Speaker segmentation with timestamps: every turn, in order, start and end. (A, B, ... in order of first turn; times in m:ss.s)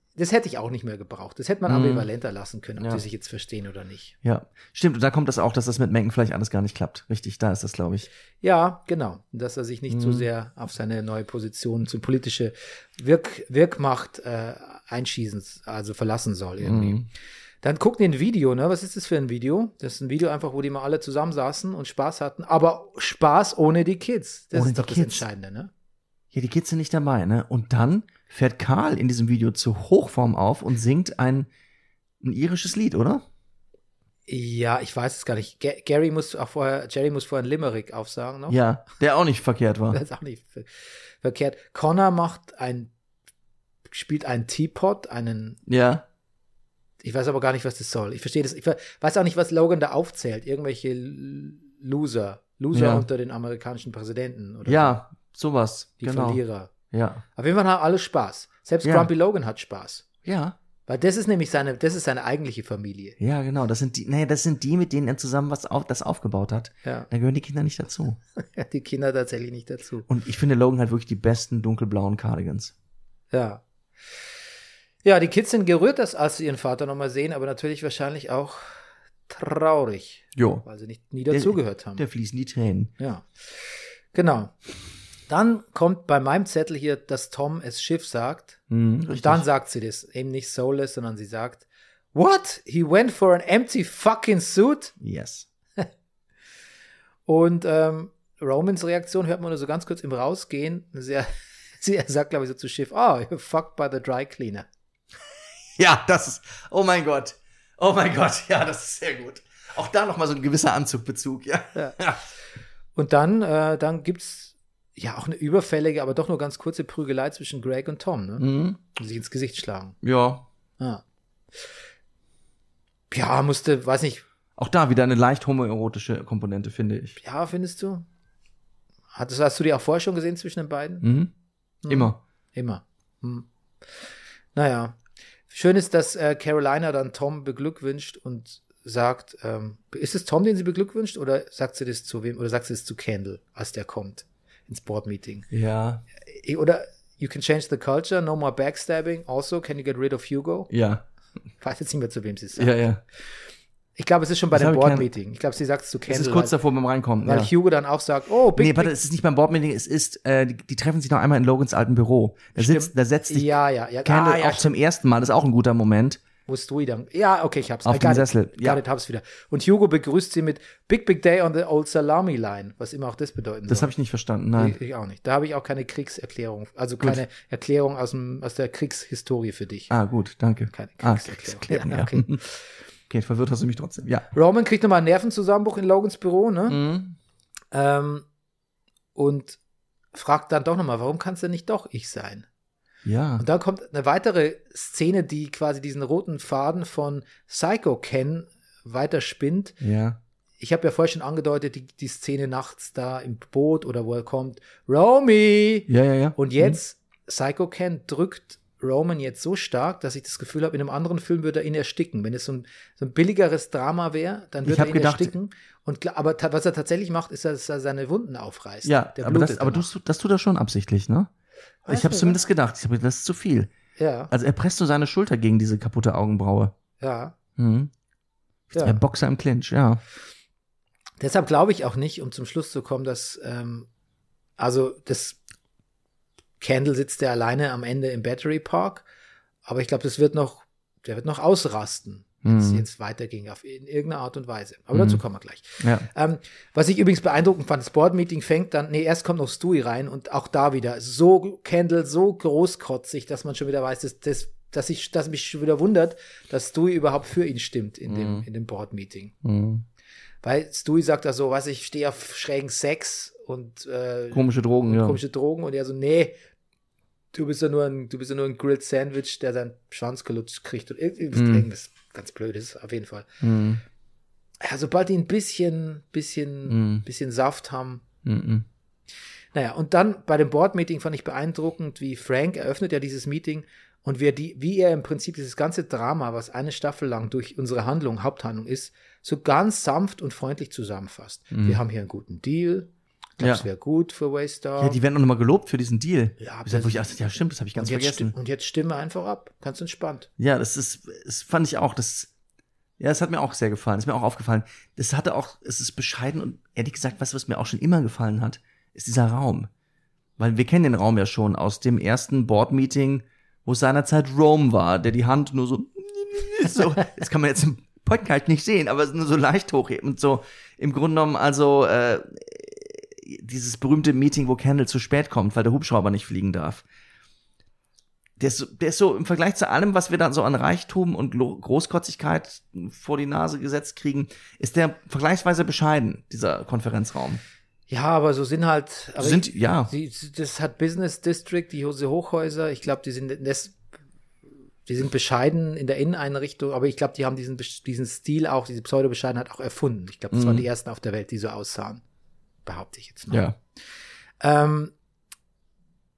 0:00.2-0:04.2 A
0:01.7-0:02.1 B
0:04.2-0:08.1 B
0:08.4-0:17.0 A
0:09.9-0:10.3 B
0:16.6-0:17.1 B
0:17.6-0:25.7 A
0:24.5-0:25.2 B
0:26.3-0:31.5 B
0:32.2-0:33.2 B
0:34.3-0:38.6 A
0:38.5-0:40.0 B
0:39.9-0:40.7 A
0:41.2-0:42.9 A
0:43.9-0:45.6 A
0:45.7-0:46.0 B
0:47.0-0:55.0 A
0:52.7-0:53.0 B
0:54.6-0:57.2 B
0:56.0-0:56.7 A
0:57.4-1:00.1 A
0:58.8-0:59.1 B
1:00.2-1:00.6 B
1:00.9-1:03.2 A
1:03.2-1:08.2 B
1:08.5-1:10.1 A
1:10.1-1:12.7 B
1:13.3-1:13.6 A
1:15.0-1:18.6 A
1:19.3-1:22.0 A
1:20.3-1:20.6 B
1:21.3-1:22.9 B
1:23.0-1:24.5 A
1:25.3-1:28.6 A
1:28.7-1:29.4 B
1:29.1-1:35.0 A
1:35.0-1:35.5 B
1:37.3-1:41.3 A
1:41.8-1:44.6 A
1:45.8-1:52.2 B
1:53.0-2:00.0 A
1:58.4-1:58.8 B
2:00.0-2:00.5 B
2:03.1-2:04.2 A
2:04.6-2:07.2 B
2:07.2-2:08.0 A
2:09.1-2:11.1 A
2:11.0-2:11.3 B
2:11.8-2:13.5 A
2:11.9-2:12.2 B
2:14.5-2:15.0 A
2:15.5-2:25.5 A
2:25.5-2:26.0 B
2:26.2-2:30.7 A
2:30.7-2:31.0 B
2:31.6-2:32.8 A
2:32.6-2:33.0 B
2:34.0-2:36.5 A
2:34.5-2:35.1 B
2:36.1-2:37.5 B
2:37.2-2:38.9 A
2:38.5-2:46.2 B
2:42.6-2:44.7 A
2:46.5-2:53.9 A
2:47.8-2:48.8 B
2:53.7-2:54.8 B
2:54.6-2:59.9 A
2:59.9-3:02.4 B
3:00.7-3:02.6 A
3:03.1-3:04.3 B
3:04.3-3:06.8 A
3:06.7-3:07.2 B
3:07.7-3:08.2 A
3:09.1-3:09.6 A
3:10.1-3:12.5 A
3:13.0-3:13.4 B
3:13.4-3:19.8 A
3:19.8-3:20.2 B
3:20.6-3:39.9 A
3:25.9-3:26.8 B
3:34.6-3:35.3 B
3:38.8-3:41.3 B
3:41.8-3:42.4 A
3:41.9-3:43.7 B
3:44.0-3:44.3 A
3:44.3-3:46.7 B
3:47.0-3:47.4 A
3:47.6-3:47.9 B
3:48.7-3:49.0 A
3:48.7-3:50.0 B
3:51.2-3:53.9 A
3:54.6-3:55.4 A
3:56.6-3:59.0 A
3:59.6-4:19.3 A
4:02.4-4:02.8 B
4:04.9-4:05.2 B
4:05.8-4:06.1 B
4:18.1-4:18.5 B
4:19.4-4:19.8 B
4:20.4-4:26.3 A
4:24.3-4:25.2 B
4:27.3-4:33.3 A
4:31.3-4:31.7 B
4:33.4-4:33.8 B
4:34.6-4:38.0 A
4:36.7-4:37.0 B
4:38.2-4:38.6 B
4:39.5-4:55.0 A
4:51.5-4:51.8 B
4:53.4-4:53.6 B
4:54.8-4:58.3 B
4:56.4-4:57.1 A
4:57.8-5:00.3 A
5:00.4-5:02.3 B
5:03.0-5:09.7 B
5:10.4-5:26.8 B
5:28.4-5:37.4 B
5:37.9-5:43.7 A
5:39.2-5:39.9 B
5:44.9-5:52.0 A
5:50.3-5:50.6 B
5:52.6-5:53.5 A
5:53.3-5:53.6 B
5:54.4-5:54.9 A